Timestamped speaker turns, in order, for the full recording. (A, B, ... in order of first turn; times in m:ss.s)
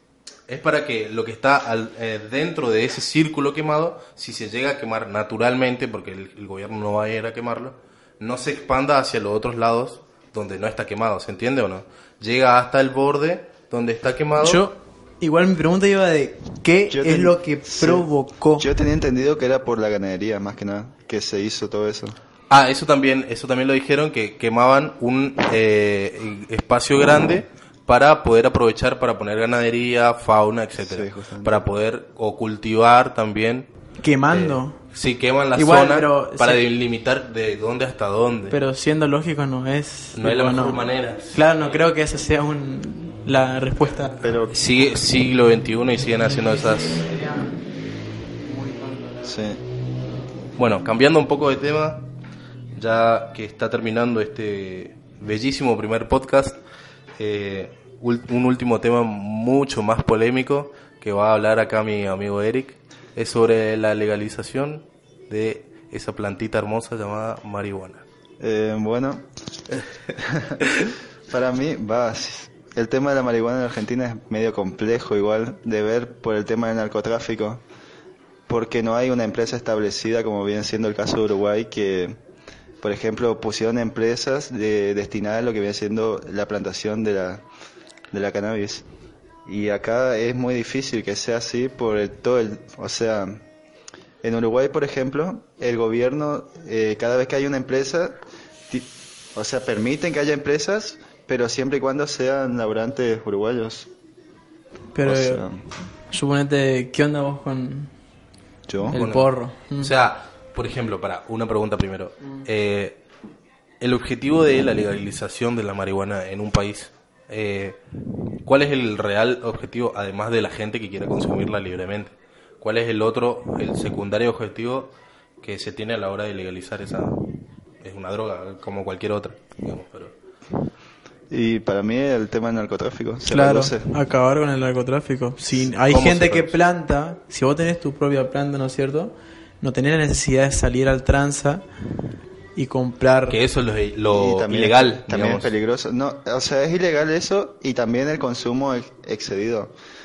0:00.5-0:14.6 A
0:14.4-0:18.7 B
0:16.9-0:18.1 C
0:18.6-0:22.2 C
0:22.5-0:33.7 A
0:30.8-0:31.6 C
0:34.0-0:34.8 B
0:34.3-0:38.6 A
0:35.6-0:36.6 B
0:38.5-0:40.8 B
0:40.2-0:41.8 A
0:41.3-0:44.4 B
0:44.2-0:44.6 C
0:44.5-0:47.1 A
0:46.9-0:47.5 B
0:48.4-0:49.4 B
0:49.2-0:49.6 C
0:50.6-0:52.1 A
0:52.8-0:56.6 A
0:57.2-1:08.0 A
1:08.4-1:09.3 C
1:10.2-1:10.7 C
1:11.3-1:17.6 C
1:18.5-1:22.2 C
1:22.8-1:27.4 C
1:28.1-1:28.8 C
1:29.5-1:33.4 C
1:34.2-1:43.9 C
1:44.9-1:45.4 B
1:45.1-1:45.6 C
1:46.1-1:47.9 B
1:48.7-1:49.0 C
1:48.9-1:49.9 B
1:48.9-1:53.0 A
1:53.8-1:57.8 A
1:58.4-2:07.2 A
2:07.8-2:10.2 A
2:11.3-2:13.9 C
2:13.3-2:21.6 B
2:15.9-2:16.6 A
2:22.6-2:23.4 B
2:23.3-2:25.5 A
2:24.1-2:29.7 C